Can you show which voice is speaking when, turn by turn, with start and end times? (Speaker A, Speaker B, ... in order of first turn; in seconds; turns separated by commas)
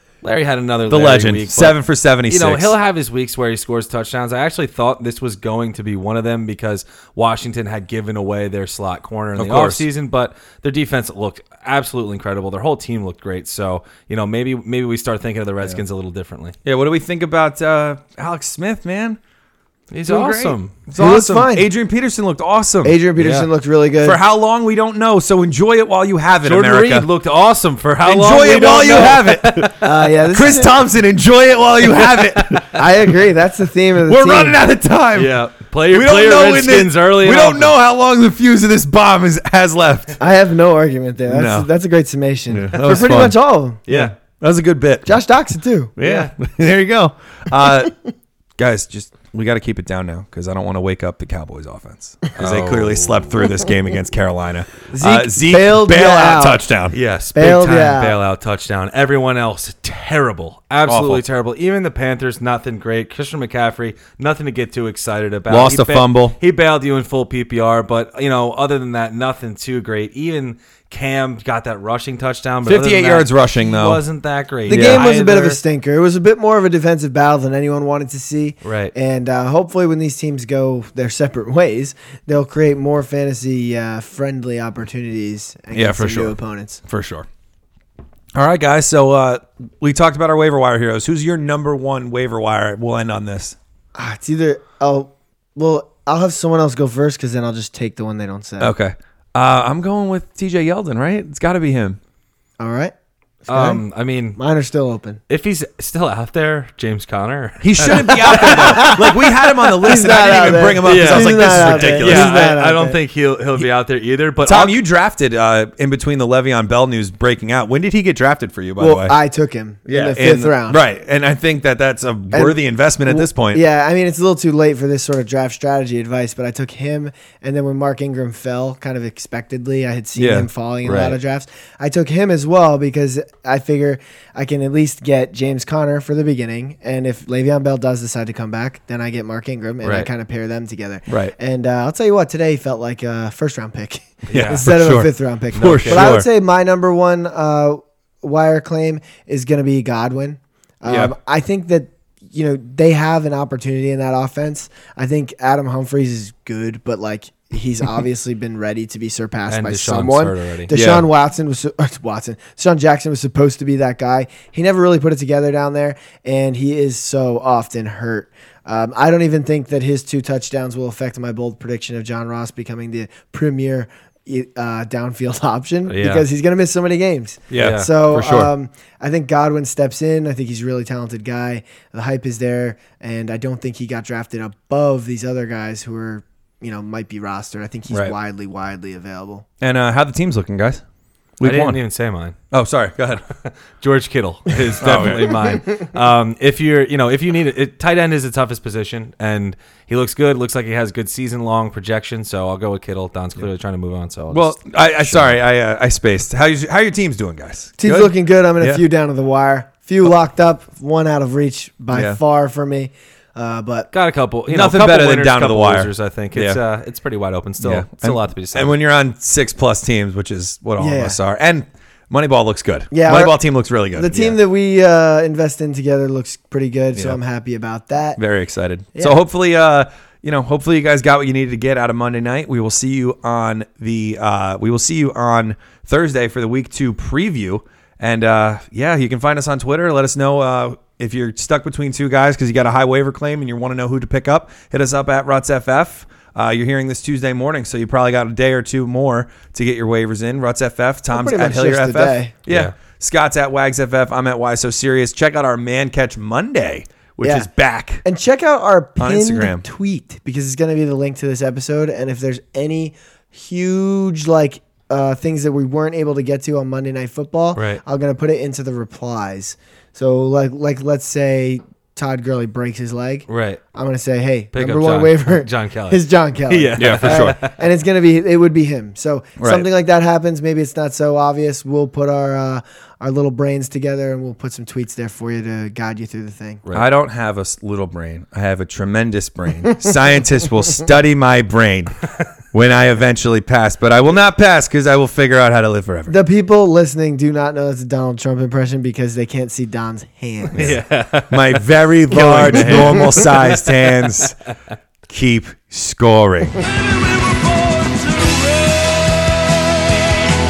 Speaker A: 0.2-16.6, Speaker B: 0.9-2.7, Speaker B: 9.4-9.9, Speaker B: 16.6-19.2, Speaker A: 19.9-20.8, Speaker B: 20.1-22.9, Speaker C: 20.9-21.7, Speaker C: 22.8-24.2, Speaker A: 23.2-23.5, Speaker B: 24.0-27.1, Speaker A: 26.4-29.9, Speaker B: 28.0-32.8, Speaker C: 29.8-30.7, Speaker A: 31.9-32.7, Speaker C: 32.7-34.6, Speaker B: 34.0-40.2, Speaker A: 35.1-37.7, Speaker C: 40.2-43.8, Speaker B: 41.3-41.7, Speaker B: 42.5-43.4, Speaker A: 43.9-44.1, Speaker B: 43.9-45.2, Speaker C: 45.0-46.0, Speaker B: 46.0-48.0, Speaker A: 46.0-46.3, Speaker B: 48.6-57.0, Speaker A: 52.4-53.5, Speaker C: 54.9-56.7, Speaker A: 56.9-75.6, Speaker C: 57.3-58.2, Speaker B: 60.9-61.2, Speaker B: 65.5-66.4, Speaker B: 72.6-74.0, Speaker B: 74.7-75.0, Speaker C: 74.7-86.8, Speaker A: 78.6-78.9, Speaker B: 85.7-87.3, Speaker B: 88.3-93.6, Speaker C: 94.0-98.7, Speaker B: 98.6-102.0, Speaker C: 102.6-102.9, Speaker C: 103.5-103.8, Speaker A: 103.5-104.4, Speaker C: 104.4-105.2, Speaker A: 105.3-109.1, Speaker B: 107.6-112.3, Speaker C: 108.3-113.0, Speaker A: 110.8-114.8, Speaker B: 114.4-119.2, Speaker C: 118.8-120.8, Speaker B: 119.9-123.6, Speaker C: 122.3-189.4, Speaker B: 130.2-130.5, Speaker A: 130.8-131.2, Speaker A: 139.8-140.1, Speaker B: 141.1-141.3, Speaker B: 144.3-146.3, Speaker A: 144.3-144.6, Speaker A: 145.5-146.1, Speaker B: 150.9-151.1, Speaker A: 159.5-160.7, Speaker B: 160.7-161.1, Speaker A: 175.9-176.2, Speaker B: 177.5-178.5, Speaker A: 177.6-177.9, Speaker B: 189.6-190.8, Speaker B: 191.4-191.8, Speaker A: 191.4-192.4, Speaker B: 192.5-193.2, Speaker A: 193.3-204.5, Speaker B: 194.8-195.6, Speaker B: 204.3-208.8, Speaker C: 207.8-213.9, Speaker B: 211.9-212.2, Speaker A: 213.9-218.8, Speaker B: 214.5-216.6, Speaker B: 217.6-224.4, Speaker C: 220.8-221.2, Speaker C: 222.9-228.2, Speaker B: 228.2-258.0, Speaker C: 251.1-252.3, Speaker A: 252.5-252.7, Speaker C: 257.2-257.5, Speaker C: 258.0-286.6, Speaker B: 259.0-259.6, Speaker A: 267.6-267.8, Speaker A: 273.3-273.6, Speaker A: 274.5-277.6, Speaker B: 276.8-277.4, Speaker B: 279.4-279.6, Speaker B: 286.7-291.9, Speaker B: 292.5-296.1, Speaker C: 296.1-300.8, Speaker A: 300.5-303.4, Speaker B: 300.6-304.3, Speaker C: 302.1-303.3, Speaker B: 305.1-306.7, Speaker A: 306.6-309.1